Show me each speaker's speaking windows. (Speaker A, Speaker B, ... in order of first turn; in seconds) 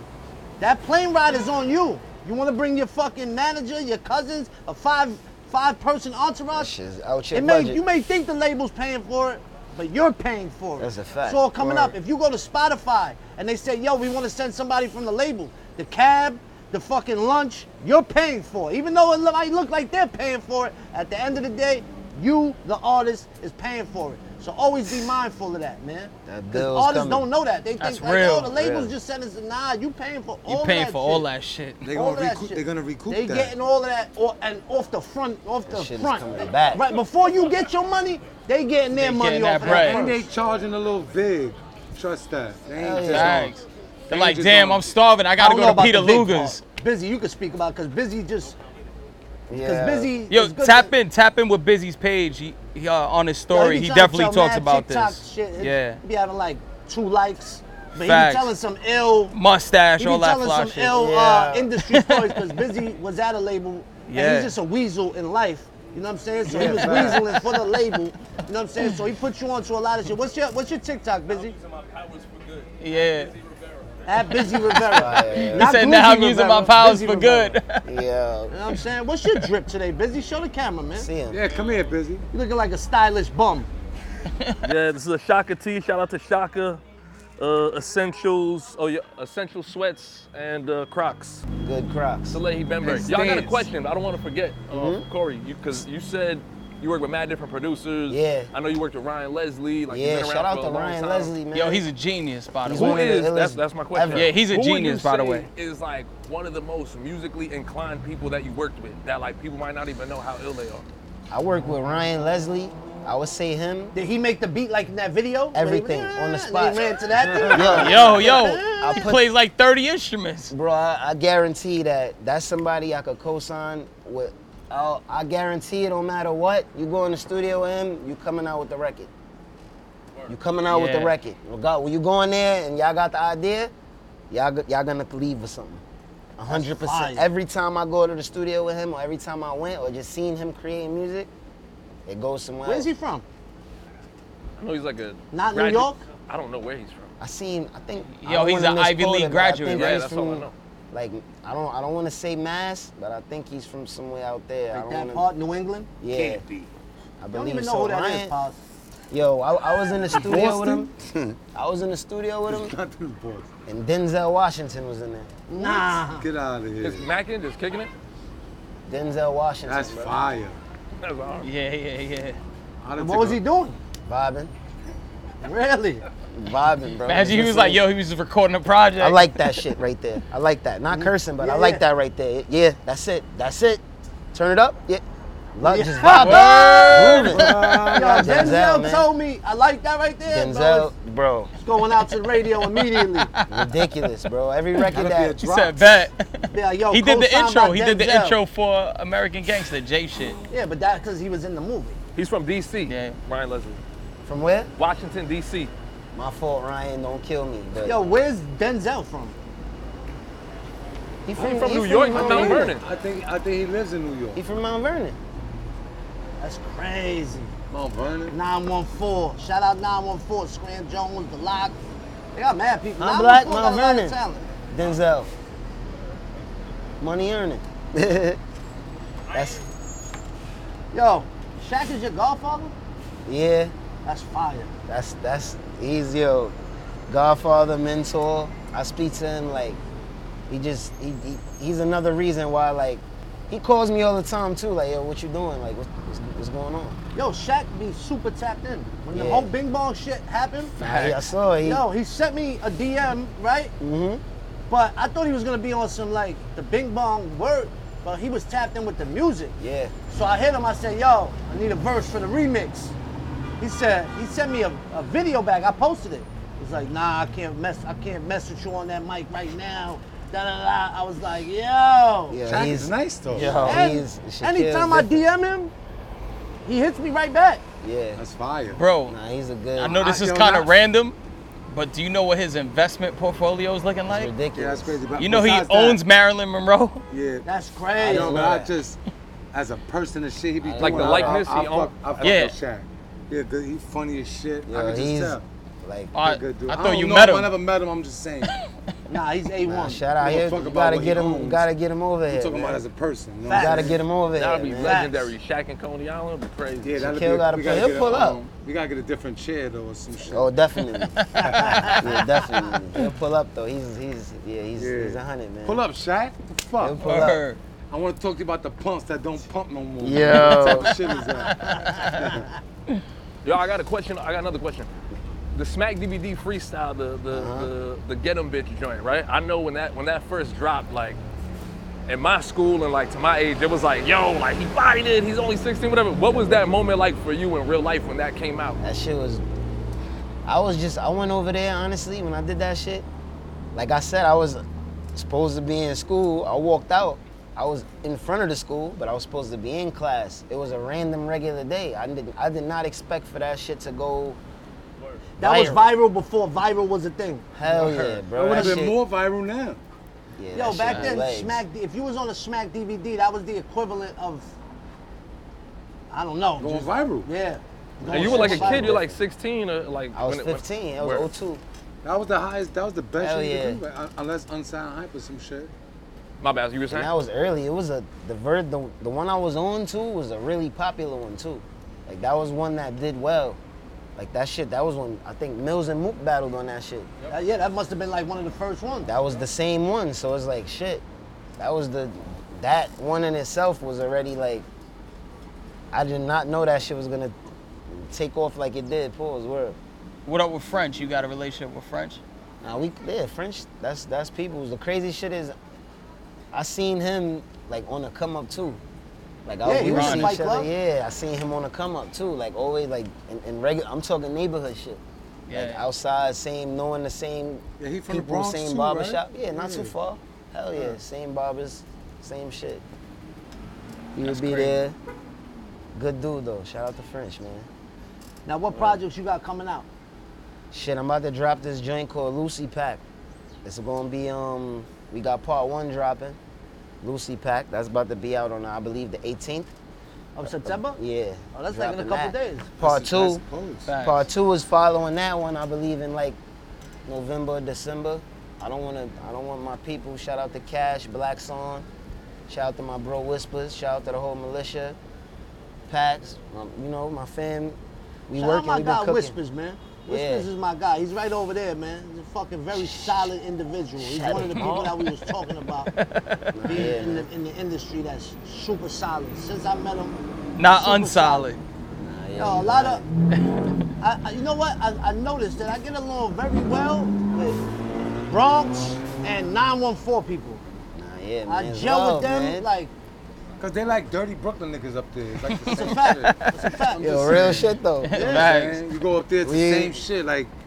Speaker A: 0.6-6.7, 7.3-31.2, 31.9-40.2, 45.4-48.5, 49.5-50.9, 53.5-59.4, 60.0-71.6, 74.0-77.6, 78.5-81.1, 82.3-83.7, 113.9-119.0, 136.5-137.3, 142.6-143.2, 145.3-146.0, 154.7-155.9, 157.3-158.6, 165.5-166.3, 173.0-173.8, 175.4-176.0, 180.9-181.8, 185.6-187.3, 187.9-190.9, 191.6-193.3, 196.5-198.4, 200.5-202.0, 207.8-209.3, 216.4-217.5, 218.3-221.8, 222.3-224.4, 230.9-232.7, 234.1-234.7, 247.1-250.7, 251.6-253.7, 254.7-259.6, 260.1-262.9, 263.6-272.5, 273.6-275.7, 276.6-277.6, 287.4-288.5, 299.1-300.0, 303.4-304.0, 304.8-305.3, 311.3-312.1, 321.6-322.4, 355.4-357.5, 360.5-364.5, 366.1-369.0, 387.3-389.1, 409.6-410.7, 428.4-429.9, 440.3-441.0, 441.5-442.7, 458.3-465.9, 466.6-471.5, 472.4-473.0, 474.0-477.6, 478.3-480.6, 481.5-482.9, 485.7-488.5
Speaker B: 6.5-7.8, 10.8-11.9, 26.2-27.3, 28.5-28.9, 35.7-37.0, 42.7-43.5, 49.5-50.1, 60.9-61.7, 74.9-75.8, 77.8-78.5, 80.9-81.4, 91.6-92.4, 94.7-95.0, 98.1-98.5, 99.9-101.8, 102.7-104.3, 111.3-113.9, 115.5-116.9, 117.5-119.2, 120.5-129.1, 130.3-133.7, 134.3-135.8, 136.4-141.3, 142.1-142.9, 147.2-155.2, 156.0-156.4, 157.2-158.3, 159.1-160.9, 161.5-162.7, 163.7-165.3, 168.8-170.2, 174.1-174.5, 176.3-177.8, 179.0-183.8, 184.3-185.0, 185.5-189.1, 190.3-191.5, 193.5-195.4, 204.2-204.7, 206.1-208.1, 211.2-212.7, 214.3-215.2, 223.0-224.2, 224.7-225.3, 227.0-228.4, 229.3-229.6, 233.2-233.7, 234.9-236.5, 237.1-239.8, 240.5-247.0, 249.1-249.5, 250.8-251.8, 253.8-254.2, 259.6-259.9, 272.3-275.2, 277.8-278.2, 279.1-280.0, 284.1-285.0, 288.0-288.7, 290.6-291.6, 294.6-296.1, 299.6-302.8, 303.5-305.0, 307.0-308.4, 310.2-311.1, 312.0-315.8, 316.8-317.4, 320.0-320.9, 327.3-327.7, 338.8-339.4, 340.4-343.1, 343.7-344.6, 345.1-354.4, 355.4-355.9, 357.5-359.0, 360.4-361.6, 368.1-369.2, 370.1-371.6, 373.2-373.8, 376.9-383.6, 384.2-387.1, 389.0-391.0, 391.6-394.6, 395.9-397.3, 397.9-399.8, 402.6-405.6, 406.5-408.8, 409.4-422.8, 424.1-424.9, 425.9-427.7, 428.7-429.0, 430.7-433.0, 433.6-436.4, 437.0-439.7, 440.4-443.4, 444.0-446.4, 447.1-451.9, 452.5-455.0, 455.9-459.3, 460.1-460.5, 462.7-463.3, 464.0-464.7, 466.5-467.3, 471.9-473.0, 480.9-482.6, 487.0-488.2, 489.4-490.0
Speaker C: 27.8-28.5, 30.5-31.8, 38.9-40.0, 43.0-46.6, 50.3-56.0, 58.0-58.5, 59.3-61.0, 61.8-62.5, 64.1-64.5, 67.0-67.6, 72.8-73.3, 74.3-77.9, 101.5-103.1, 104.1-105.5, 117.6-120.5, 130.7-131.1, 148.1-149.9, 171.4-172.4, 177.1-179.7, 186.1-187.9, 192.4-193.8, 194.8-200.4, 202.9-203.2, 250.8-251.2, 278.7-279.1, 279.8-281.1, 281.7-284.3, 285.2-287.0, 292.2-292.5, 296.1-297.5, 310.9-312.1, 317.0-317.6, 320.2-320.9, 321.6-322.1, 357.7-358.2, 400.2-402.2, 409.8-410.4, 415.5-415.8, 443.9-444.3, 464.5-465.0, 465.9-466.4, 470.6-471.6, 485.5-486.6, 488.1-488.8
Speaker D: 31.8-33.5, 39.6-43.5, 44.1-44.9, 66.5-67.4, 81.3-82.2, 92.8-93.7, 117.1-117.8, 156.1-156.7, 160.1-161.4, 162.5-163.5, 165.6-167.1, 169.7-170.6, 172.8-173.4, 187.2-188.5, 194.9-196.0, 212.1-214.4, 217.7-218.3, 250.8-251.1, 272.4-273.8, 278.1-278.8, 279.8-280.7, 284.5-286.0, 287.1-287.4, 288.1-289.0, 289.5-295.5, 296.1-298.5, 300.2-301.6, 302.3-304.0, 306.8-310.5, 311.4-311.9, 314.8-317.2, 317.9-322.5, 358.3-359.8, 366.6-367.3, 372.0-375.7, 417.8-419.9, 424.2-424.7, 442.8-443.9, 483.6-486.3, 486.9-490.5
Speaker E: 72.2-72.7, 84.6-86.8, 87.4-91.4, 92.3-101.3, 102.7-110.8, 144.6-147.1, 149.7-150.5, 166.8-167.9, 171.0-171.5, 202.2-203.8, 204.8-205.7, 211.3-212.8, 290.8-292.2, 304.3-307.0, 323.4-324.9, 325.5-331.2, 332.1-338.8, 368.1-371.3, 376.4-377.2